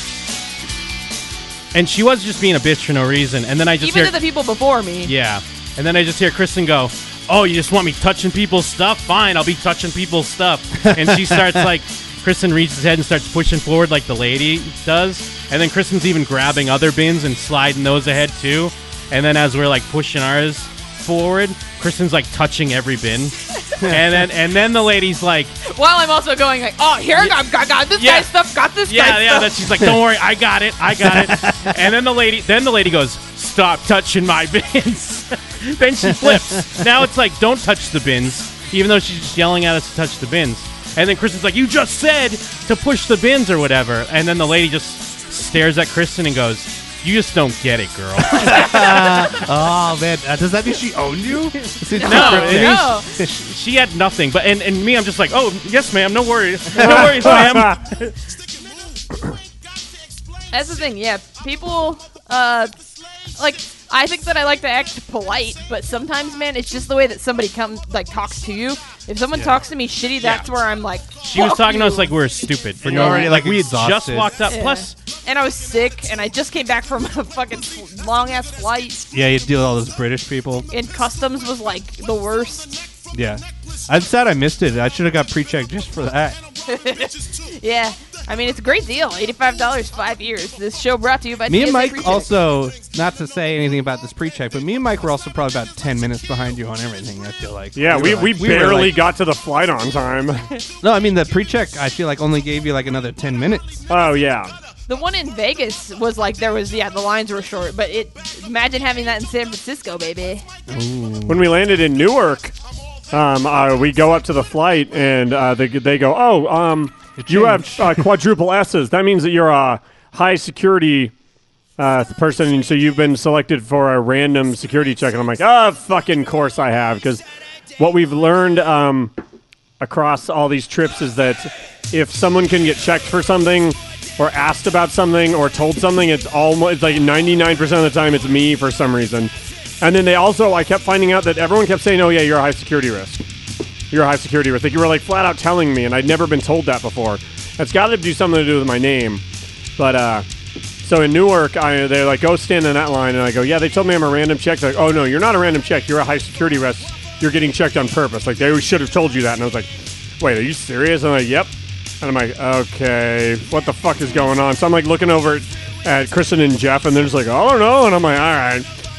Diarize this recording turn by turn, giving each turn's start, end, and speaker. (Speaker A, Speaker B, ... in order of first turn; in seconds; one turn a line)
Speaker A: 1.7-4.2
Speaker B: 3.8-5.1
Speaker A: 5.0-25.5
Speaker C: 10.9-11.7
Speaker C: 23.8-24.2
Speaker B: 25.6-29.6
Speaker A: 27.9-28.3
Speaker A: 28.8-49.1
Speaker C: 30.9-31.8
Speaker C: 36.0-36.8
Speaker C: 48.3-53.3
Speaker A: 51.9-58.1
Speaker B: 52.0-53.1
Speaker C: 56.8-57.4
Speaker D: 56.8-57.7
Speaker B: 60.5-62.7
Speaker B: 63.4-72.1
Speaker C: 69.3-69.6
Speaker A: 71.2-74.9
Speaker C: 72.8-74.3
Speaker B: 72.9-73.3
Speaker B: 74.5-79.0
Speaker C: 79.1-80.7
Speaker B: 80.7-82.8
Speaker C: 83.1-86.4
Speaker B: 86.7-92.3
Speaker C: 91.5-99.0
Speaker D: 97.7-100.5
Speaker C: 100.8-103.9
Speaker D: 103.9-104.5
Speaker B: 104.9-110.4
Speaker C: 110.7-111.5
Speaker D: 111.2-112.5
Speaker D: 113.1-121.1
Speaker C: 117.2-118.1
Speaker D: 121.8-127.2
Speaker D: 127.8-129.1
Speaker D: 129.8-143.2
Speaker D: 143.9-149.2
Speaker D: 149.8-150.2
Speaker D: 150.8-168.7